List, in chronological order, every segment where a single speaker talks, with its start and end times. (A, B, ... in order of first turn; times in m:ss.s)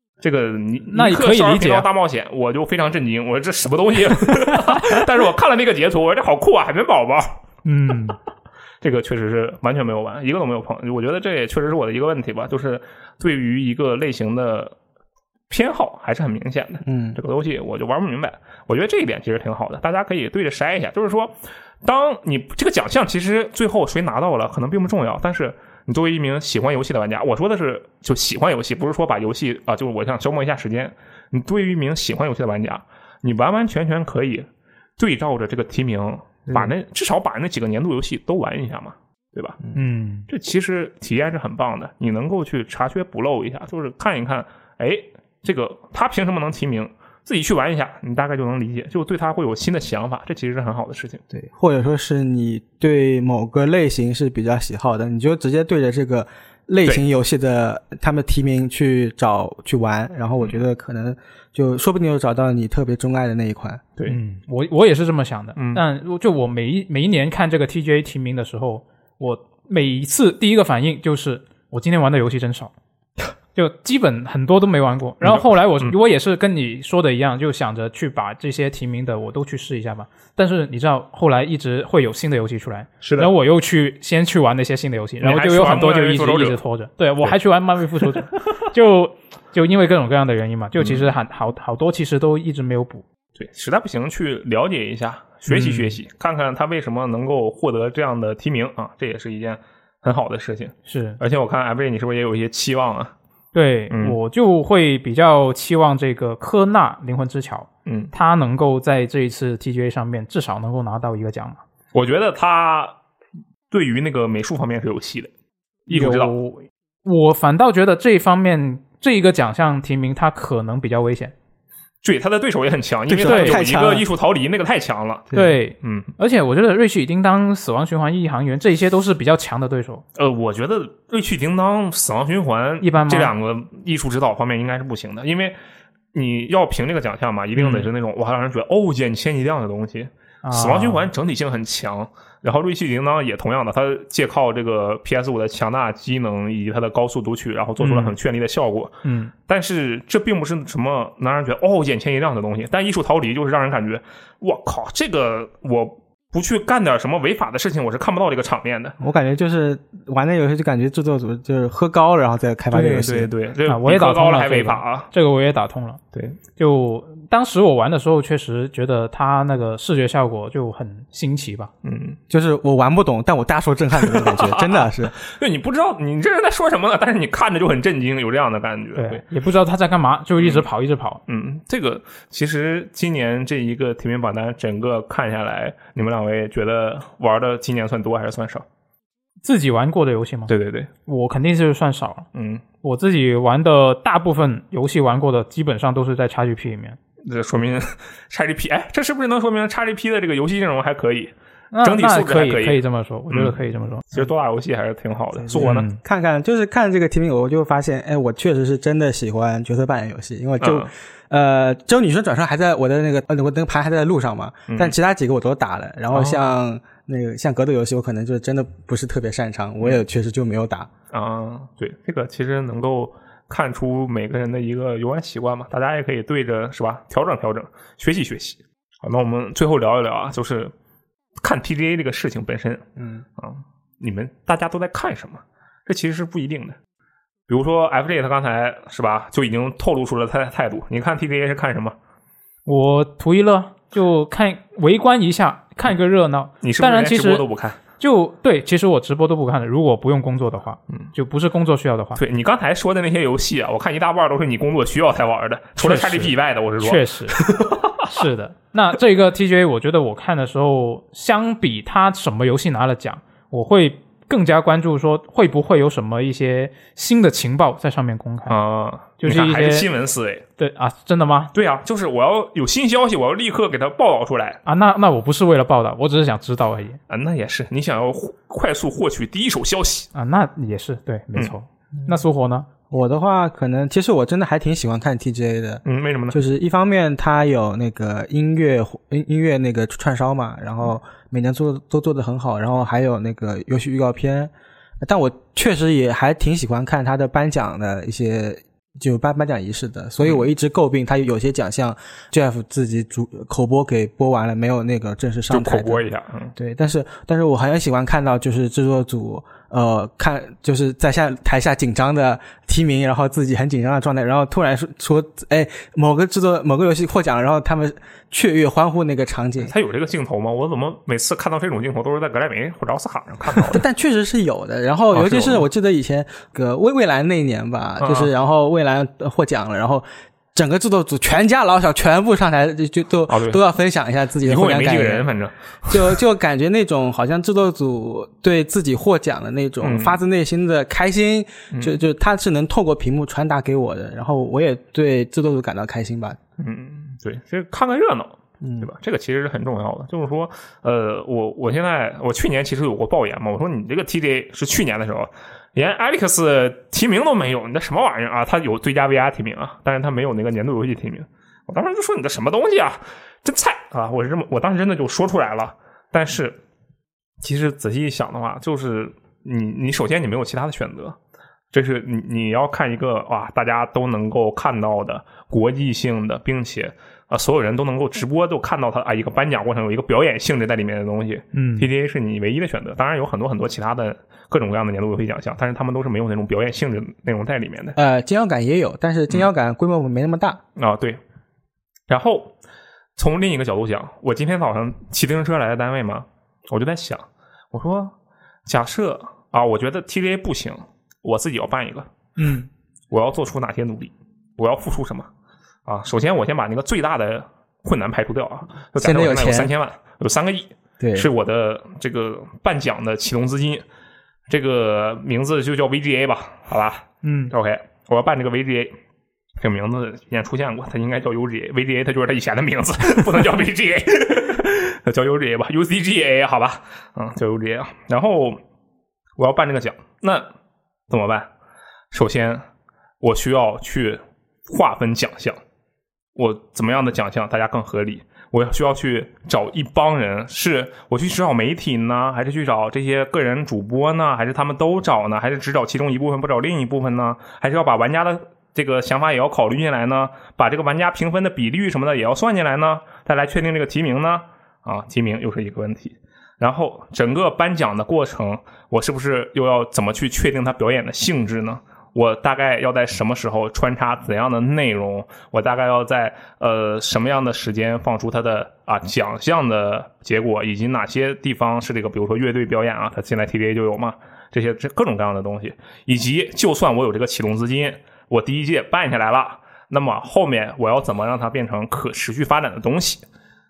0:00.2-0:07.4 A
0:00.9-0:01.9 B
0:04.5-0:05.0 B
0:07.6-0:08.2 B
0:08.8-0:14.7 A
0:15.5-0:39.6 A
0:16.8-0:17.2 C
0:39.7-0:40.2 B
0:40.3-0:51.2 A
0:51.3-1:03.8 C
1:04.1-1:12.7 B
1:05.6-1:05.8 A
1:13.5-1:33.0 B
1:15.2-1:16.0 A
1:23.0-1:23.3 A
1:25.2-1:26.6 A
1:30.8-1:31.1 A
1:33.4-1:43.1 A
1:35.5-1:36.0 B
1:40.8-1:41.2 B
1:43.5-1:51.6 B
1:43.9-1:44.2 A
1:47.8-1:48.1 A
1:51.9-1:52.9 A
1:53.7-1:55.3 A
1:55.9-1:56.3 A
1:55.9-2:01.3 B
2:02.0-2:06.1 A
2:03.1-2:04.0 C
2:03.2-2:03.6 B
2:05.3-2:10.0 B
2:10.2-2:15.6 A
2:12.8-2:13.3 B
2:16.1-2:39.0 A
2:17.6-2:17.9 B
2:20.4-2:21.1 B
2:27.8-2:28.1 B
2:29.0-2:29.3 B
2:39.0-2:43.3 C
2:42.7-2:45.1 A
2:43.7-2:46.0 B
2:46.1-2:46.4 A
2:46.6-2:51.7 B
2:51.8-2:52.2 A
2:52.3-2:55.1 C
2:54.0-2:59.2 A
2:59.0-3:01.2 B
3:00.4-3:00.7 A
3:01.3-3:08.6 A
3:09.4-3:10.5 B
3:10.5-3:10.9 A
3:11.0-3:12.3 B
3:12.3-3:12.6 A
3:12.8-3:17.0 B
3:17.2-3:25.9 A
3:21.7-3:24.0 B
3:25.4-3:40.9 C
3:25.6-3:26.0 B
3:30.6-3:30.9 A
3:34.7-3:34.9 A
3:36.1-3:36.4 A
3:41.1-3:50.7 A
3:51.4-3:52.8 A
3:53.0-3:53.2 C
3:53.4-3:56.8 A
3:57.5-4:02.0 A
4:02.6-4:12.2 B
4:06.6-4:07.8 A
4:12.2-4:18.1 A
4:15.8-4:17.4 B
4:18.0-4:28.6 B
4:28.5-4:30.4 A
4:29.2-4:29.9 B
4:30.6-4:31.5 B
4:31.5-4:34.6 A
4:34.6-4:37.0 B
4:37.1-4:40.1 A
4:40.1-4:42.7 B
4:42.9-4:54.5 C
4:45.8-4:46.4 A
4:55.0-5:06.0 C
5:05.5-5:06.5 A
5:06.6-5:19.7 C
5:19.6-5:23.8 A
5:23.6-5:35.3 C
5:25.1-5:25.7 A
5:28.0-5:28.3 A
5:33.3-5:33.6 A
5:34.4-5:36.2 A
5:35.9-5:46.4 C
5:39.8-5:40.2 A
5:46.6-6:06.6 A
5:48.6-5:48.9 C
6:07.4-6:11.2 A
6:11.7-6:28.0 A
6:21.5-6:21.9 B
6:28.0-6:30.6 C
6:30.8-6:31.2 A
6:32.1-6:32.5 A
6:33.2-6:38.1 A
6:38.6-6:42.1 A
6:42.4-6:42.7 B
6:43.1-6:45.3 A
6:45.8-6:53.8 A
6:49.0-6:49.7 C
6:51.0-6:51.3 C
6:54.5-6:58.9 A
6:57.2-6:57.5 B
6:59.6-7:08.6 A
7:09.4-7:10.5 A
7:11.1-7:11.5 A
7:12.1-7:12.6 A
7:13.2-7:15.6 A
7:16.4-8:03.2 A